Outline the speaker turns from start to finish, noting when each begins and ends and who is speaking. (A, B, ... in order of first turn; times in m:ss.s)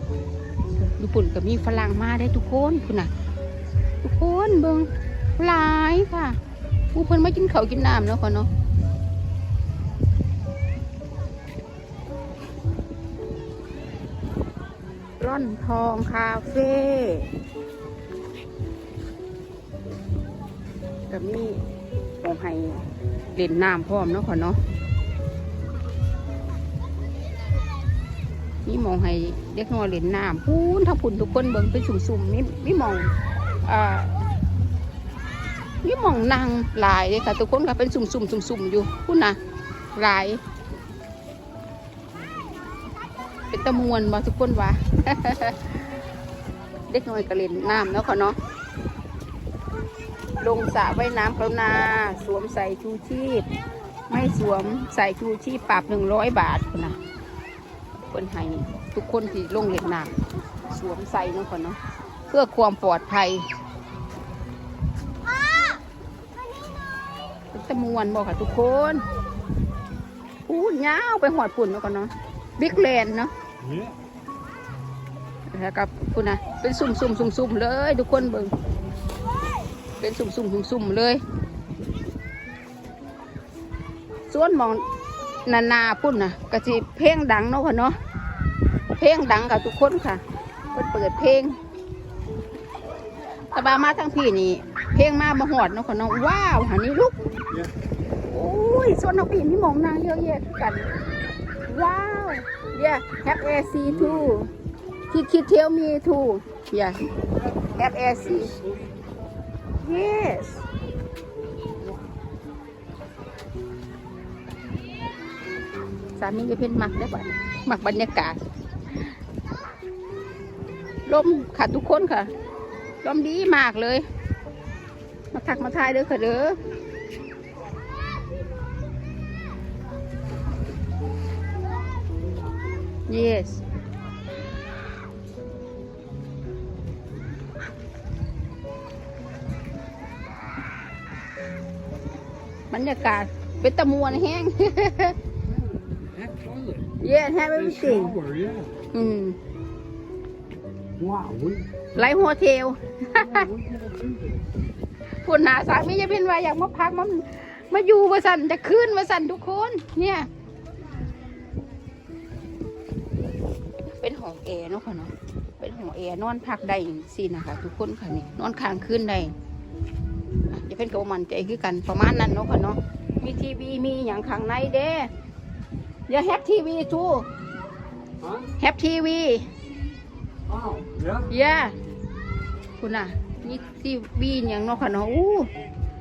0:00.7-0:03.1 A
0:04.0-0:06.4 A
0:06.9-0:08.5 A
0:15.2-0:17.3 A
0:21.1-0:21.6 A
0:22.2-0:24.6 A
0:28.6-0:33.1 A
0:33.6-0:34.2 A
0:35.8-0:39.4 A
0:39.9-0:40.4 A
0:43.5-0:45.8 A
0:46.9-0:48.4 A
0:50.4-0:53.5 A
0:54.1-0:57.0 A
0:58.1-1:00.2 A
1:00.7-1:01.8 A
1:02.3-1:03.5 A
1:07.5-1:09.0 A
1:10.4-1:13.3 A
1:13.6-1:13.9 B
1:15.5-1:18.5 A
1:20.0-1:21.2 A
1:24.3-1:24.8 A
1:25.5-1:28.0 A
1:29.0-1:30.2 A
1:30.7-1:31.6 A
1:33.5-1:37.1 A
1:38.3-1:41.0 A
1:41.6-1:44.5 A
1:45.1-1:47.0 A
1:47.7-1:48.6 A
1:49.8-1:50.6 A
1:56.2-1:58.4 A
2:01.1-2:02.3 A
2:03.0-2:04.0 A
2:05.3-2:06.6 A
2:13.1-2:13.6 A
2:22.7-2:25.2 A
2:25.7-2:26.9 B
2:27.0-2:28.2 A
2:27.8-2:28.7 B
2:28.9-2:29.4 A
2:31.0-2:31.7 B
2:31.9-2:33.5 A
2:33.5-2:34.4 B
2:35.1-2:40.3 A
2:43.8-2:49.3 A
2:50.5-2:55.1 A
2:56.1-2:57.2 A
2:58.6-2:59.5 A
3:00.5-3:01.1 B
3:01.2-3:01.8 A
3:02.8-3:05.5 A